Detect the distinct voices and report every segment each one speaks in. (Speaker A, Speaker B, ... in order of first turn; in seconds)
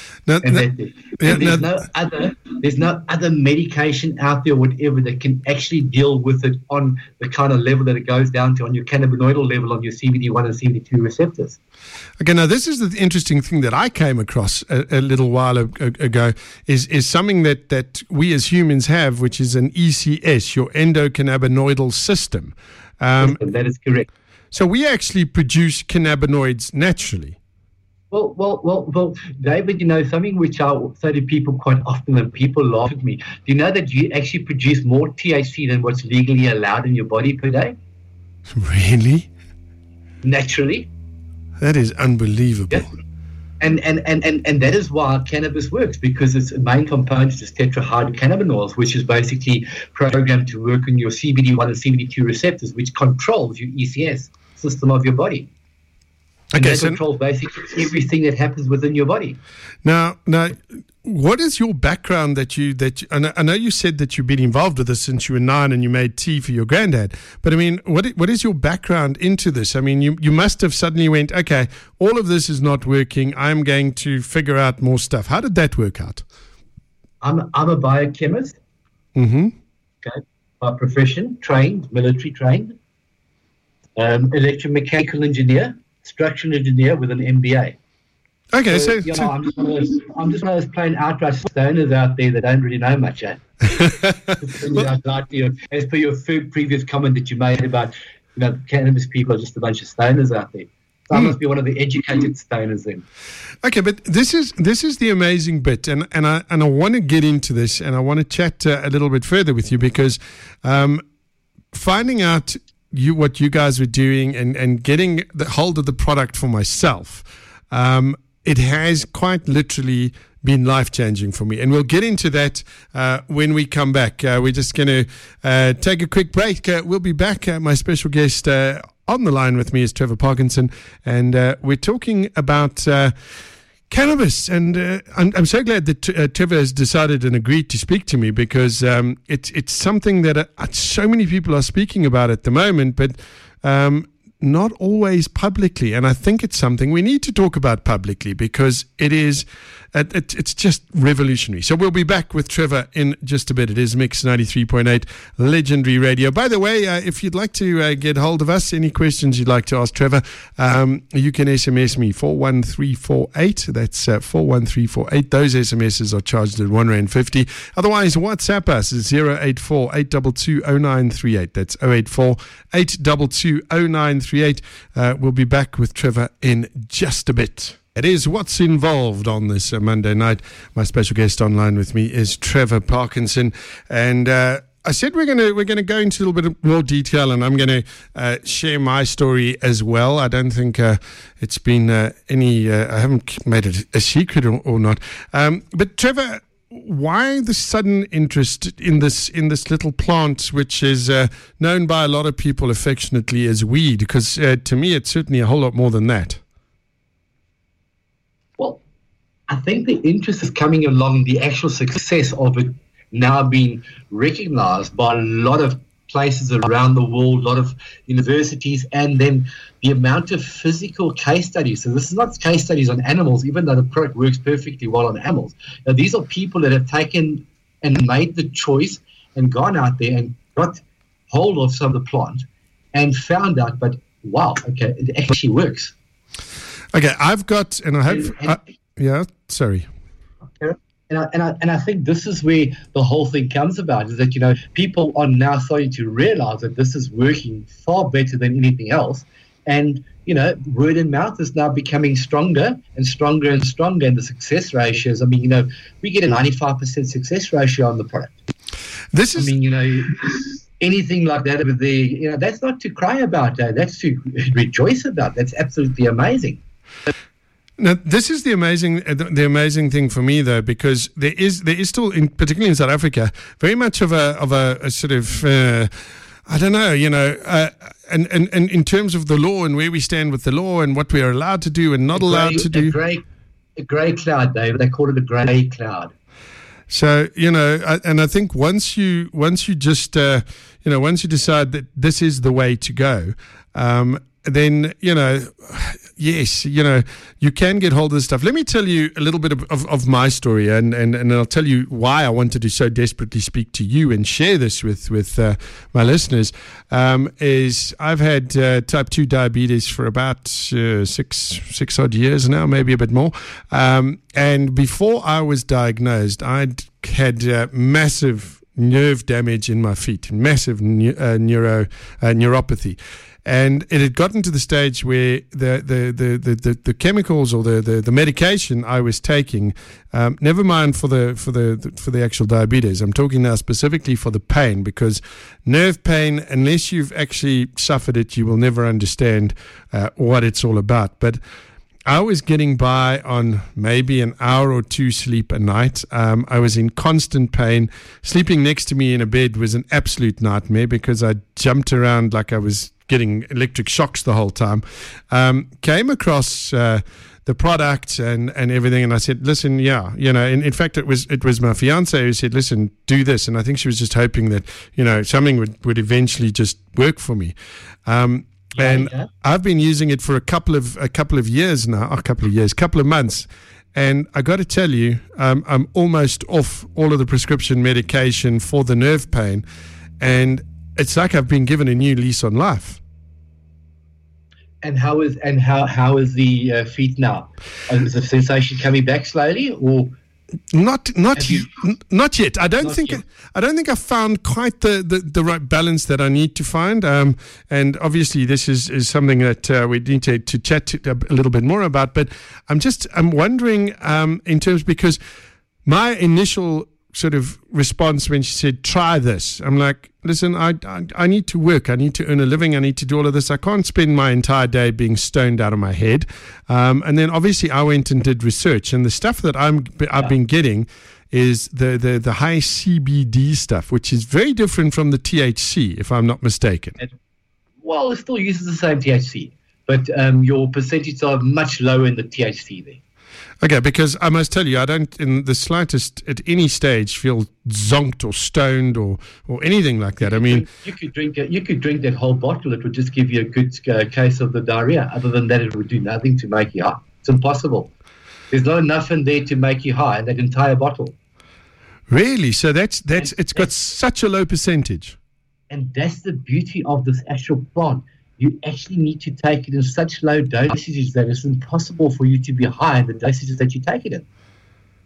Speaker A: 0.3-0.7, 1.2-1.7, 12.2-23.4, 24.5-27.4, 38.5-39.3, 41.6-42.9, 56.5-57.0, 59.8-76.2, 79.2-79.5, 88.5-89.3, 93.7-94.4, 103.6-111.0, 111.7-133.1, 133.9-206.4, 236.9-239.9, 259.1-259.5, 267.8-275.9, 276.5-283.0, 286.9-341.4, 342.1-367.5, 368.1-379.6, 380.2-383.0, 390.7-405.2, 405.8-427.0, 433.6-440.6, 452.1-455.1
Speaker B: 0.4-11.6, 23.2-24.1, 28.1-37.8, 40.2-40.9, 43.6-55.5, 56.6-59.4, 77.2-78.6, 80.0-82.8, 84.0-87.8, 88.7-93.6, 94.4-103.0, 209.5-235.9, 238.1-238.6, 240.6-258.4, 259.3-266.6, 282.1-283.2, 283.8-286.1, 368.8-369.3, 384.8-390.1, 391.4-391.7, 392.8-393.2, 427.8-433.0, 440.2-447.9, 448.5-451.1, 453.2-453.7, 455.7-464.2